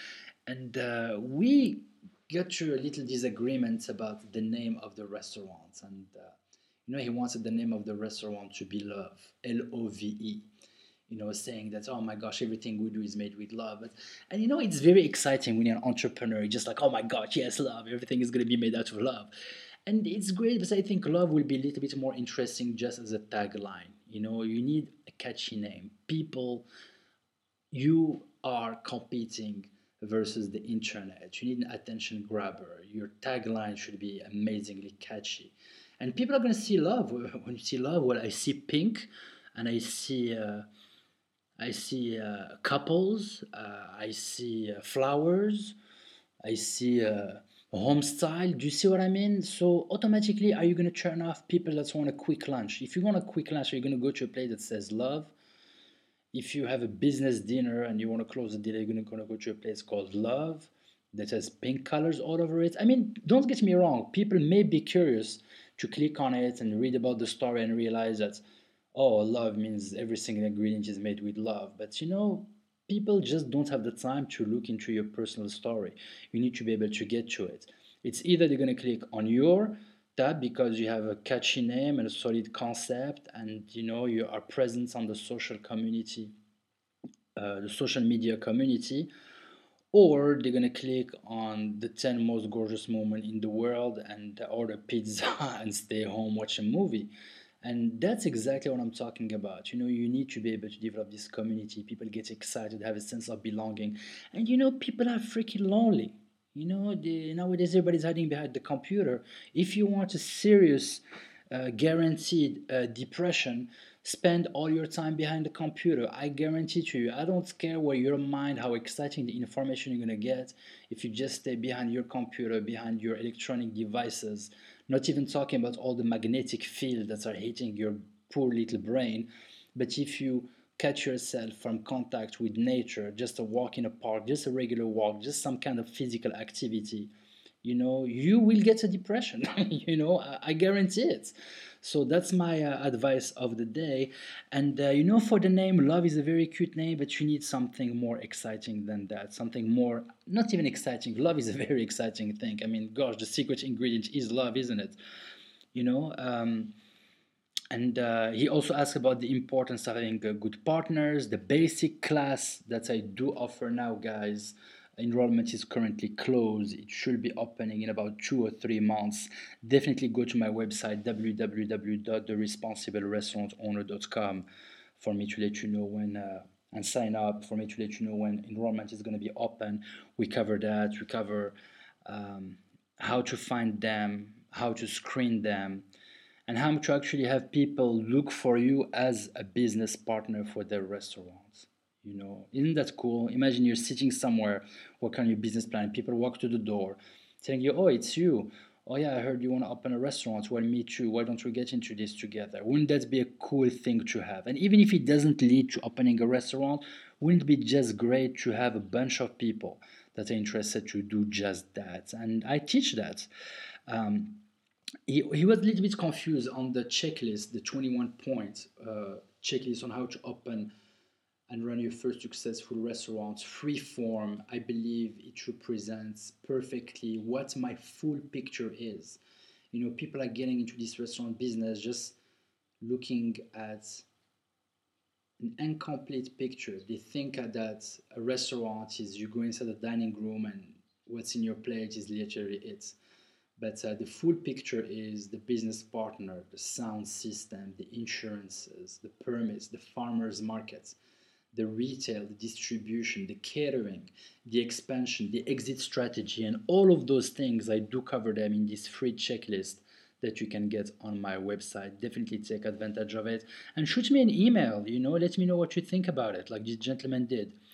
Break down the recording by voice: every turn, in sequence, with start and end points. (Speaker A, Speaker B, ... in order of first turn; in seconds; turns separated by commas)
Speaker A: 0.5-10.5, Speaker A: 11.1-19.3, Speaker A: 19.9-26.6, Speaker A: 27.7-40.7, Speaker A: 41.6-45.8, Speaker A: 46.5-55.3, Speaker A: 56.3-68.4, Speaker A: 68.9-86.3, Speaker A: 87.3-89.1, Speaker A: 89.9-97.1, Speaker A: 97.6-137.1, Speaker A: 137.6-155.0, Speaker A: 155.7-156.7, Speaker A: 157.7-174.4, Speaker A: 175.0-181.5, Speaker A: 182.1-185.8, Speaker A: 186.5-213.3, Speaker A: 213.9-214.4, Speaker A: 215.1-220.7, Speaker A: 221.5-229.2, Speaker A: 229.7-232.2, Speaker A: 232.8-234.1, Speaker A: 235.4-243.0, Speaker A: 243.6-251.0, Speaker A: 251.5-267.6